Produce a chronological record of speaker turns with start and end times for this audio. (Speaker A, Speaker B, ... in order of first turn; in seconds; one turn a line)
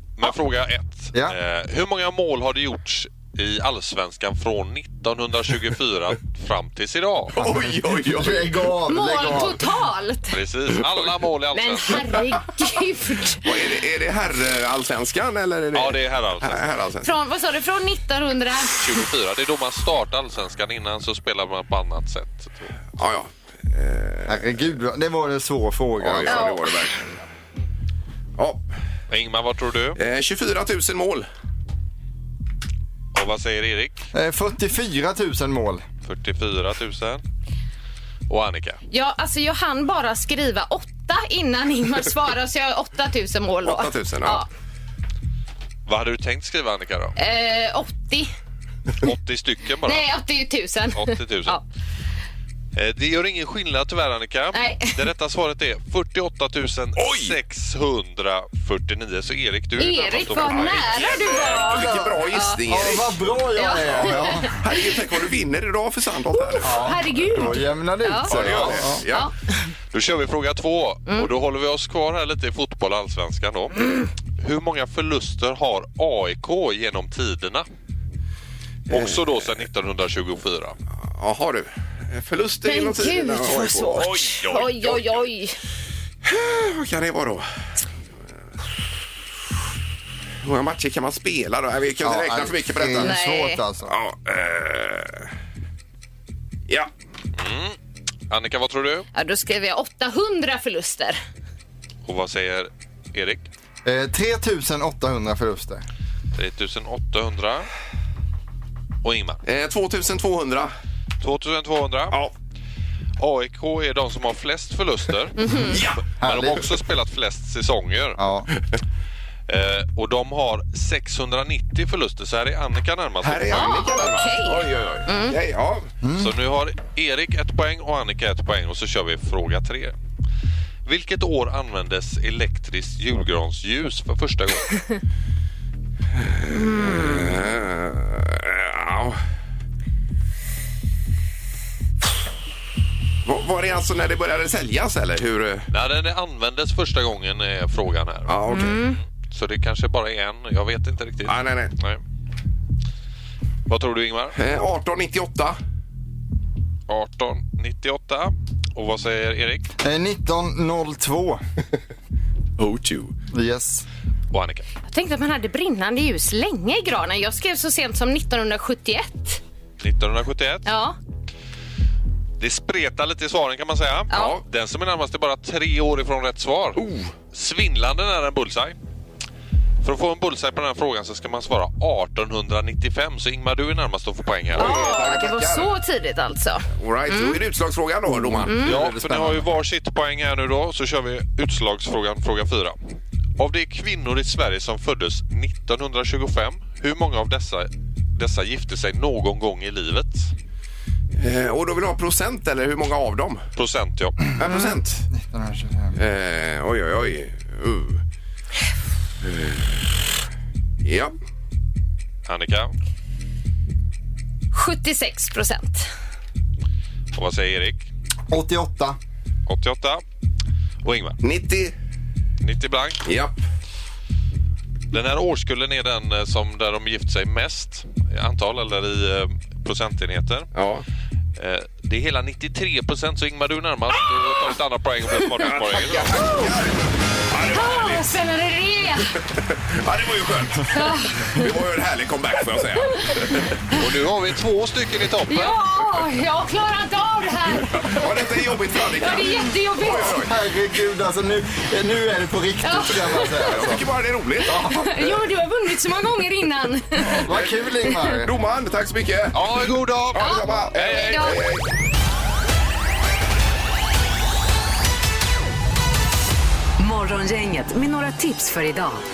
Speaker A: 0.2-7.5
Speaker B: 7.4-8.6
Speaker C: 7.4-9.6
Speaker D: 8.9-10.4
Speaker A: 10.3-12.2
Speaker D: 11.5-13.5
Speaker B: 13.4-17.1
Speaker A: 15.7-16.8
Speaker D: 17.0-18.8
Speaker A: 18.7-22.8
Speaker B: 23.0-24.6
Speaker C: 24.3-26.5
Speaker B: 26.0-27.2
Speaker D: 26.3-26.8
Speaker B: 28.4-28.6
Speaker A: 29.1-30.0
Speaker B: 30.0-31.3
Speaker A: 33.1-34.1
Speaker C: 34.1-35.9
Speaker A: 36.0-37.2
Speaker A: 38.3-38.8
Speaker D: 38.9-44.5
Speaker B: 43.6-44.4
Speaker A: 45.9-47.1
Speaker D: 47.2-48.3
Speaker A: 49.0-50.1
Speaker D: 49.9-51.6
Speaker A: 50.9-51.6
Speaker A: 52.8-61.2
Speaker D: 54.5-55.0
Speaker B: 57.0-57.4
Speaker D: 59.8-62.6
Speaker B: 60.4-63.2
Speaker C: 61.7-62.1
Speaker C: 62.7-64.6
Speaker D: 63.6-64.6
Speaker B: 63.9-67.0
Speaker D: 66.3-68.3
Speaker C: 66.6-69.0
Speaker B: 68.3-69.3
Speaker D: 69.1-69.6
Speaker A: 69.9-77.7
Speaker B: 78.9-79.2
Speaker A: 78.9-80.8
Speaker B: 81.0-85.2
Speaker D: 82.7-85.6
Speaker B: 86.2-87.5
Speaker B: 90.4-93.2
Speaker C: 92.0-93.9
Speaker D: 93.0-93.6
Speaker B: 93.9-95.3
Speaker A: 97.4-97.8
Speaker A: 98.3-99.1
Speaker D: 99.1-101.2
Speaker A: 102.1-103.5
Speaker C: 103.8-105.8
Speaker A: 106.3-107.7
Speaker A: 109.0-109.4
Speaker B: 109.4-110.7
Speaker A: 111.2-112.2
Speaker A: 113.2-118.2
Speaker D: 115.4-115.8
Speaker B: 115.7-116.0
Speaker C: 116.2-116.6
Speaker C: 118.2-118.5
Speaker A: 119.5-123.9
Speaker B: 123.2-125.9
Speaker D: 123.5-125.4
Speaker C: 126.0-126.3
Speaker A: 126.2-129.9
Speaker A: 130.8-134.8
Speaker B: 136.2-139.2
Speaker D: 136.5-137.4
Speaker B: 143.2-145.7
Speaker A: 145.7-148.6
Speaker B: 148.3-148.8
Speaker D: 148.5-149.0
Speaker A: 149.3-152.0
Speaker B: 151.2-151.7
Speaker A: 153.7-154.4
Speaker B: 154.3-155.6
Speaker A: 156.9-159.7
Speaker C: 159.8-161.4
Speaker B: 162.6-163.1
Speaker C: 163.3-163.9
Speaker A: 164.3-164.7
Speaker D: 164.9-169.4
Speaker A: 169.8-170.7
Speaker D: 170.7-171.0
Speaker A: 172.4-178.8
Speaker D: 174.1-174.4
Speaker B: 176.8-177.1
Speaker A: 179.8-184.8
Speaker B: 184.5-185.7
Speaker D: 184.6-187.4
Speaker B: 186.7-188.7
Speaker C: 188.1-189.5
Speaker D: 188.4-188.7
Speaker A: 188.7-192.8
Speaker A: 193.4-200.3
Speaker B: 201.2-203.5
Speaker A: 203.6-204.2
Speaker B: 204.4-205.1
Speaker C: 204.4-206.0
Speaker B: 206.0-208.0
Speaker B: 209.2-210.0
Speaker B: 210.8-211.1
Speaker A: 212.3-212.7
Speaker D: 214.5-215.9
Speaker A: 217.1-217.9
Speaker C: 218.3-219.0
Speaker A: 219.5-220.0
Speaker A: 220.8-221.2
Speaker B: 221.2-221.7
Speaker A: 222.4-223.1
Speaker B: 223.1-223.3
Speaker A: 224.9-230.5
Speaker B: 230.6-230.8
Speaker A: 231.4-236.3
Speaker B: 235.4-238.1
Speaker D: 237.5-239.2
Speaker B: 239.4-243.6
Speaker D: 240.7-241.4
Speaker A: 243.7-245.6
Speaker D: 245.3-248.1
Speaker B: 247.9-250.3
Speaker D: 249.0-250.2
Speaker C: 250.1-253.8
Speaker D: 252.6-253.5
Speaker B: 253.5-255.0
Speaker C: 254.5-254.8
Speaker D: 254.6-257.2
Speaker C: 257.1-258.3
Speaker B: 257.3-261.6
Speaker A: 259.3-261.3
Speaker D: 260.2-261.4
Speaker E: 266.8-269.0